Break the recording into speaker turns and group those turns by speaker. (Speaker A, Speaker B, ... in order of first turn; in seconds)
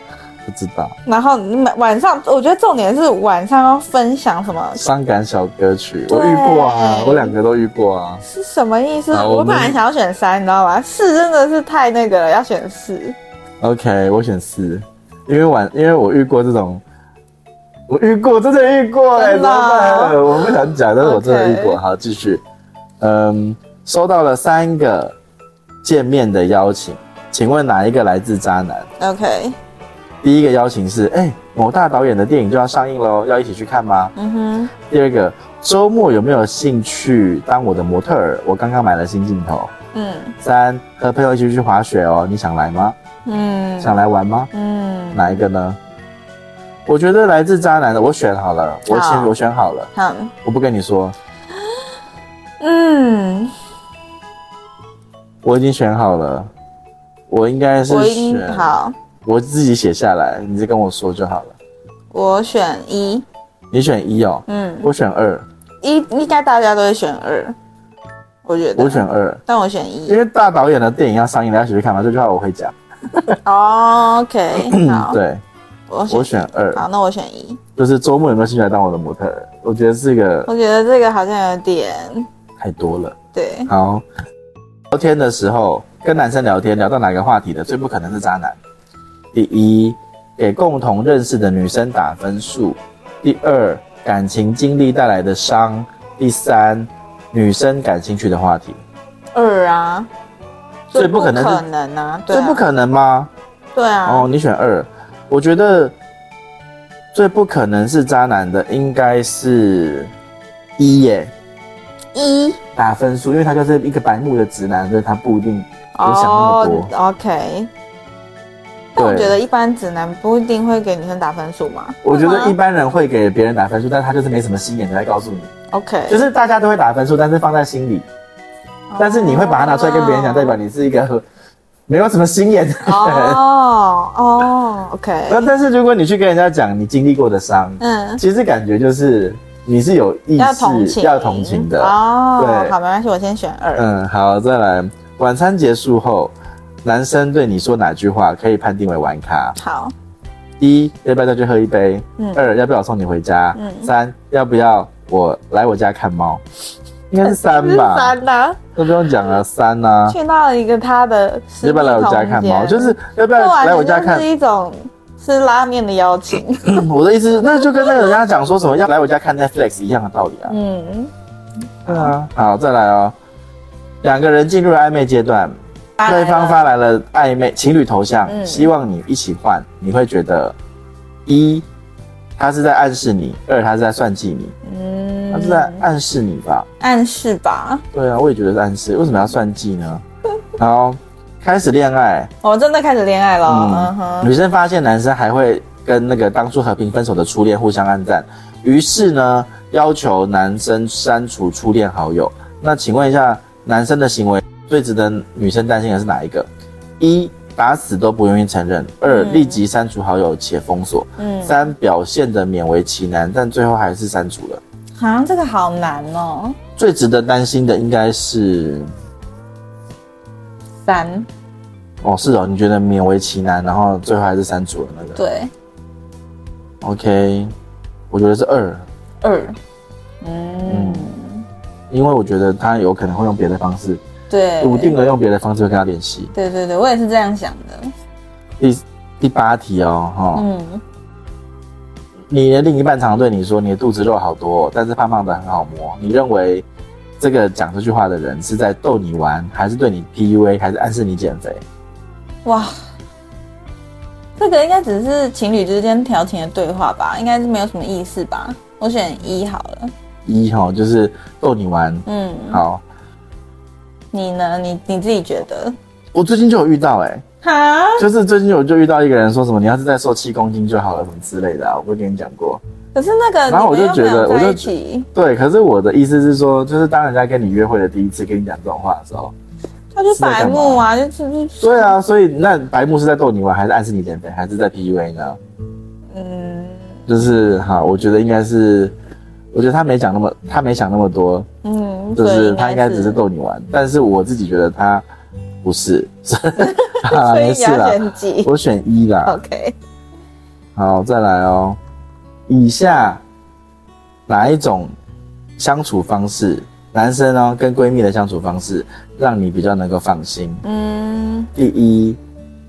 Speaker A: 0.5-0.9, 4.8-8.2, 9.1-9.8, 13.6-16.8, 17.9-22.4, 23.0-25.2, 25.8-28.9, 30.2-34.1, 34.9-39.7, 40.4-43.0, 43.8-44.5, 45.1-45.8, 46.9-49.9, 50.4-51.2, 55.4-56.5, 57.3-58.7, 59.2-61.5, 63.7-65.5, 68.8-69.4, 70.1-73.4, 74.6-75.4, 76.1-76.8, 77.8-80.5, 82.6-83.2, 83.7-84.0, 84.9-88.6, 89.3-98.8, 100.9-101.6, 102.3-103.3, 104.1-105.9, 107.1-110.1, 110.8-111.3, 112.8-116.9, 119.0-119.4, 122.0-125.5, 126.1-128.1, 129.0-131.2, 131.9-133.4, 135.3-142.8, 143.8-146.3, 146.8-149.6, 150.6-156.4, 157.1-158.2, 158.8-160.2, 161.6-164.2, 166.7-170.6, 171.9-173.1, 174.0-175.5, 176.1-180.6, 181.2-181.6, 182.4-184.6, 185.3-186.7, 187.9-190.0, 190.6-192.3, 193.4-206.5, 207.0-214.6, 216.8-218.9, 222.0-225.2, 226.8-227.5, 228.1-228.8, 230.6-231.1, 231.9-234.0, 234.6-236.3, 238.6-240.4, 242.3-246.7, 247.2-251.6, 260.2-262.8, 266.1-267.2, 268.0-272.6, 273.5-279.3, 280.1-280.9, 281.6-285.4, 287.1-288.9, 289.5-291.5, 292.1-295.1, 295.6-299.4, 300.8-301.8, 302.5-303.2, 304.3-304.9, 305.6-310.6, 311.5-312.2
Speaker B: 1.1-4.8, 6.1-7.3, 8.2-13.2, 19.1-21.8, 29.0-29.6, 34.2-34.7, 39.9-40.3, 43.2-45.4, 48.9-49.3, 49.9-50.3, 52.6-53.5, 57.9-59.0, 62.1-63.2, 64.5-64.9, 65.8-67.6, 68.4-70.2, 73.4-75.2, 75.9-77.6, 80.5-82.3, 83.3-83.7, 99.3-100.1, 100.9-102.6, 103.8-104.3, 112.1-112.6, 115.9-117.7, 118.9-122.6, 125.7-126.2, 128.9-130.6, 132.8-135.4, 137.8-138.2, 140.4-143.9, 149.6-149.9, 152.2-152.4, 153.6-153.9, 157.2-158.7, 160.1-166.9, 167.6-168.1, 170.4-171.1, 171.9-172.1, 176.0-176.6, 178.2-178.7, 184.6-185.8, 186.8-187.8, 192.4-194.3, 209.1-209.6, 211.2-211.6, 215.0-216.6, 220.8-221.3, 225.2-225.5, 229.2-229.6, 230.2-231.4, 234.3-235.0, 236.3-237.9, 240.3-240.8, 252.4-252.7, 254.4-259.9, 262.1-262.6, 264.1-265.8, 267.4-268.1, 272.9-275.1, 279.9-282.0, 286.1-287.0, 291.6-293.2, 296.6-298.5, 299.2-299.8, 310.6-311.5